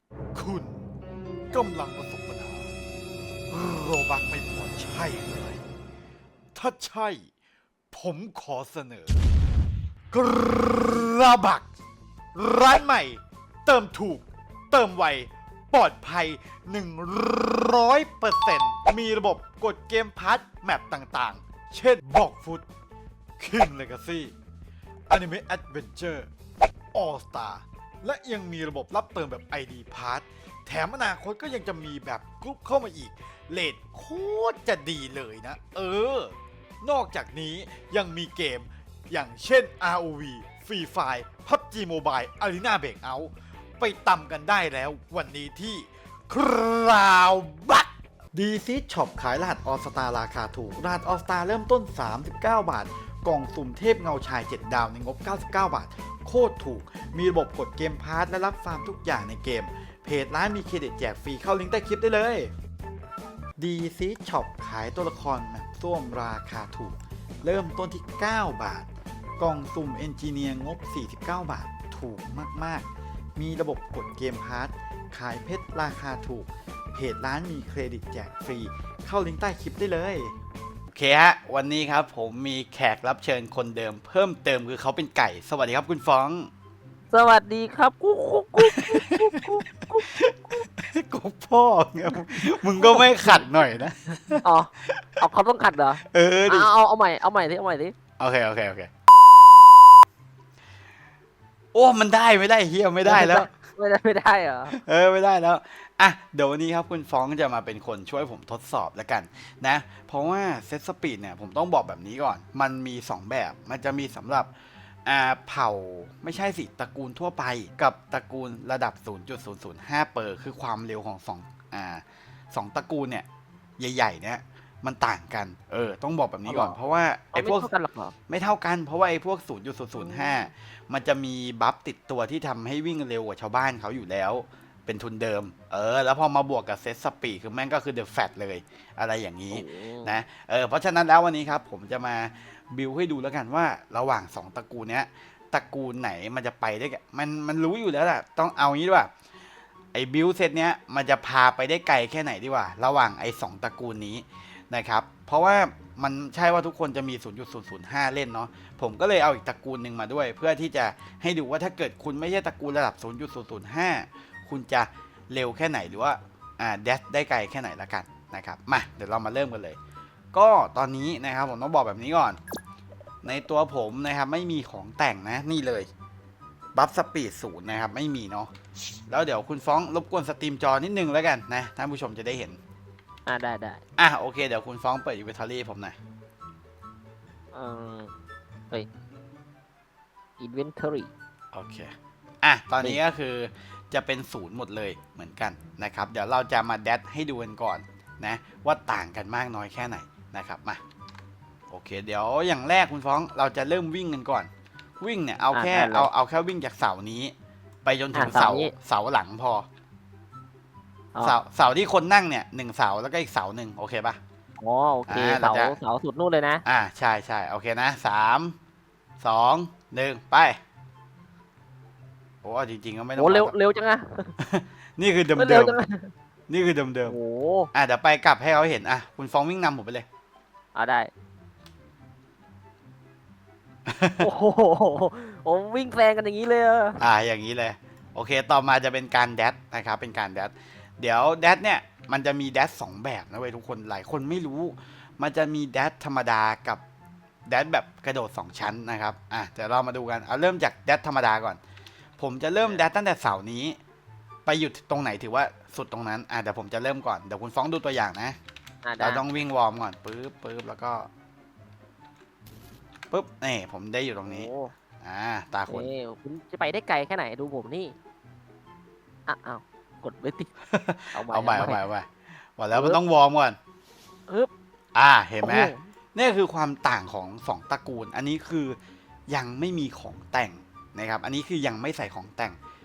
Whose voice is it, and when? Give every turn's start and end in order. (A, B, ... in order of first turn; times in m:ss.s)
0:00.3-0:00.9 A
0:01.5-0:02.7 A
0:03.5-0:05.6 A
0:06.5-0:07.3 A
0:07.9-0:09.2 A
0:10.1-0:11.7 A
0:12.3-0:22.6 A
0:23.4-0:24.3 A
0:25.1-0:26.3 A
0:26.9-1:02.5 A
1:03.6-1:20.3 A
1:20.9-1:26.5 A
1:27.1-1:30.6 B
1:28.6-1:35.0 A
1:32.1-1:37.9 B
1:36.1-1:36.7 A
1:38.2-1:38.9 A
1:41.7-1:43.5 A
1:43.0-1:44.8 B
1:44.7-1:54.5 A
1:55.0-2:03.2 A
2:03.8-2:07.7 A
2:06.4-2:06.8 B
2:07.3-2:08.1 B
2:08.3-2:29.1 A
2:10.0-2:10.4 B
2:19.5-2:20.2 B
2:29.9-2:49.8 A
2:50.3-2:52.4 A
2:53.2-2:55.9 A
2:56.7-2:58.5 A
2:59.1-3:02.6 A
3:03.2-3:03.8 B
3:04.0-3:06.0 A
3:07.5-3:08.1 B
3:10.4-3:11.1 B
3:11.5-3:20.8 A
3:21.7-3:24.5 A
3:25.0-3:27.3 A
3:25.5-3:26.1 B
3:27.8-3:29.6 A
3:28.1-3:28.7 B
3:31.2-3:34.2 A
3:34.6-3:36.6 B
3:35.1-3:35.8 A
3:36.6-3:38.6 A
3:39.2-3:40.6 A
3:42.4-3:43.5 A
3:43.2-3:44.3 B
3:44.4-3:45.8 A
3:45.4-3:46.1 B
3:46.5-3:47.2 A
3:47.0-3:47.7 B
3:47.7-3:50.0 A
3:50.7-3:51.1 B
3:53.9-3:54.2 A
3:54.2-3:57.0 B
3:57.0-4:06.8 A
4:07.5-4:11.6 A
4:12.2-4:13.8 A
4:14.4-4:18.4 A
4:18.8-4:19.2 B
4:19.0-4:21.1 A
4:23.1-4:24.5 A
4:24.2-4:24.7 B
4:25.0-4:25.9 A
4:25.7-4:27.9 B
4:29.3-4:30.5 B
4:30.7-4:33.6 A
4:31.1-4:31.8 B
4:32.7-4:33.0 B
4:34.9-4:38.8 A
4:35.4-4:35.8 B
4:39.3-4:42.6 A